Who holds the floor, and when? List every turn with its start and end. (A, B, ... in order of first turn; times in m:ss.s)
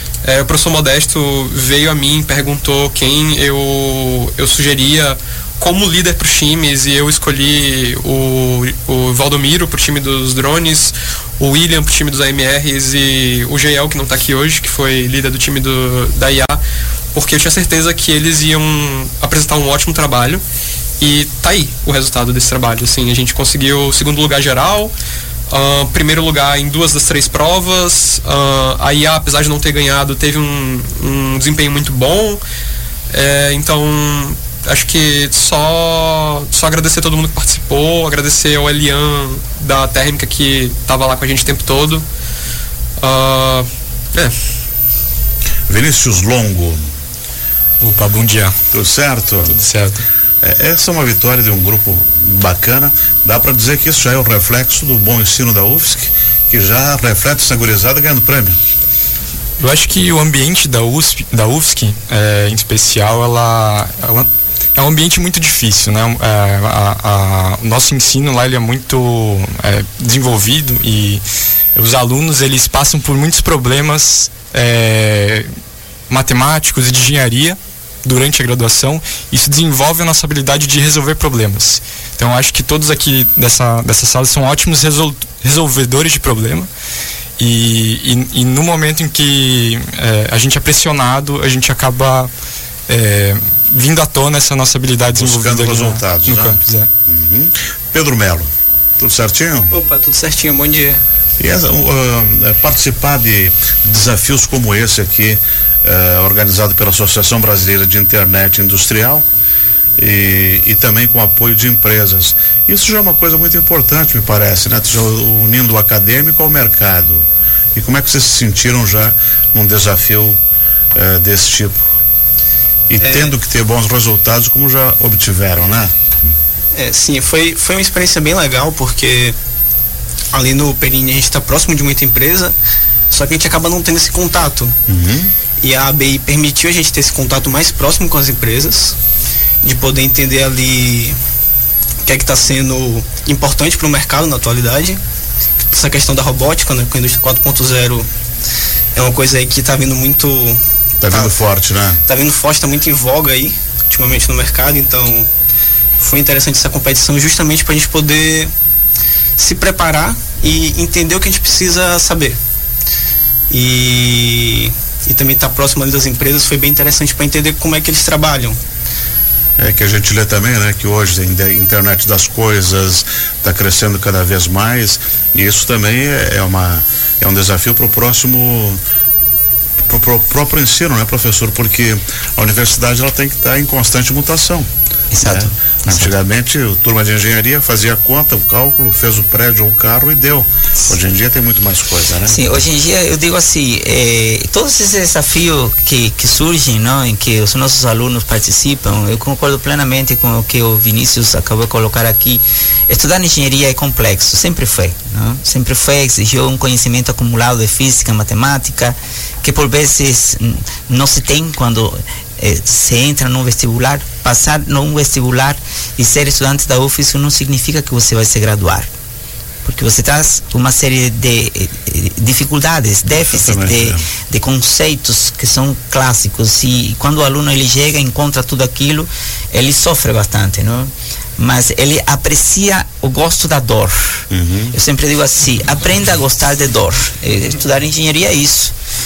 0:00.2-0:16.6 A
0:17.1-0:20.4 A
0:21.0-0:24.9 A
0:25.5-0:32.4 A
0:33.1-0:42.0 A
0:43.0-0:44.3 A
0:45.7-0:46.8 B
0:47.8-0:48.6 C
0:48.7-0:49.6 B
0:49.4-0:50.0 C
0:50.4-0:58.6 B
0:59.6-1:11.2 C
1:11.7-1:15.5 C
1:16.1-1:26.7 C
1:27.4-1:32.3 C
1:32.9-1:36.9 C
1:35.1-1:38.5 B
1:39.0-1:39.7 B
1:39.7-1:41.0 D
1:41.4-1:49.2 B
1:50.0-2:00.4 B
2:00.9-2:01.9 B
2:02.9-2:05.9 B
2:03.0-2:03.4 D
2:06.7-2:09.4 D
2:10.3-2:12.6 D
2:13.1-2:14.7 D
2:14.9-2:15.3 B
2:15.6-2:19.0 D
2:19.6-2:21.2 D
2:22.0-2:25.0 D
2:25.7-2:28.1 D
2:28.9-2:31.4 D
2:31.0-2:32.0 B
2:32.0-2:35.3 D
2:36.0-2:38.5 D
2:39.4-2:42.4 D
2:43.5-2:48.6 D
2:49.6-2:58.8 B
2:59.9-3:04.7 B
3:05.1-3:06.1 E
3:05.2-3:12.6 B
3:12.2-3:38.9 E
3:39.6-3:54.2 E
3:43.2-3:44.1 B
3:54.3-3:54.7 B
3:54.7-3:58.7 E